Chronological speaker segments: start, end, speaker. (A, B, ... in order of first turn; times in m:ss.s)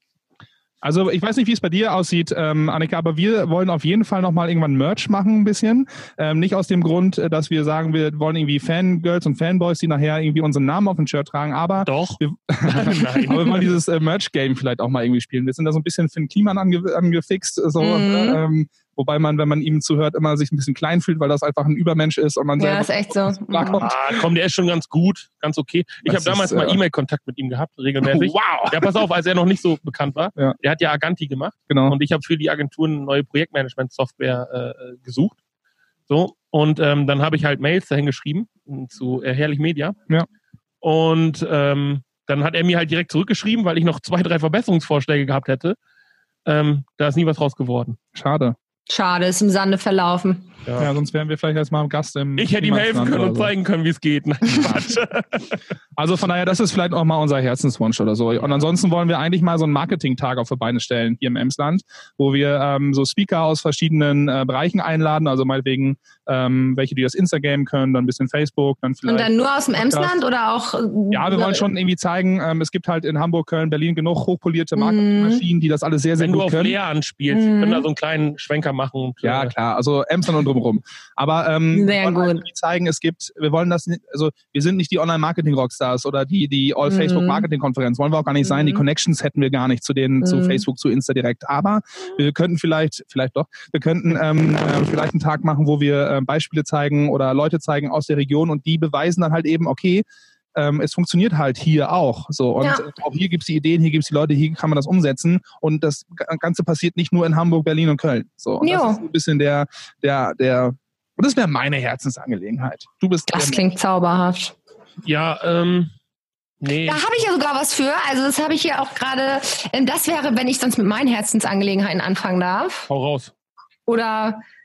0:00.8-0:24.0 A
0:11.8-0:13.7 B
0:17.8-0:18.4 C
0:22.6-0:23.9 C
0:23.7-0:35.4 B
0:26.0-0:26.8 A
0:28.0-0:29.0 A
0:31.7-0:32.0 A
0:36.1-0:40.0 B
0:40.8-0:45.8 B
0:46.4-0:48.0 B
0:48.1-0:48.6 A
0:48.9-0:50.5 C
0:50.6-0:50.9 B
0:50.8-0:53.5 A
0:52.4-0:55.6 B
0:54.5-0:54.8 A
0:56.0-1:10.2 A
1:09.0-1:11.6 C
1:11.1-1:16.8 A
1:14.8-1:15.4 C
1:16.2-1:19.5 B
1:17.3-1:17.8 C
1:19.2-1:53.6 A
1:21.7-1:22.4 C
1:26.8-1:27.4 C
1:28.4-1:28.8 C
1:30.2-1:30.6 C
1:42.6-1:42.9 C
1:48.6-1:49.0 C
1:53.3-1:54.5 C
1:55.0-1:55.9 B
1:56.6-1:57.0 B
1:56.8-2:02.9 C
2:02.9-2:03.3 B
2:03.9-2:04.4 C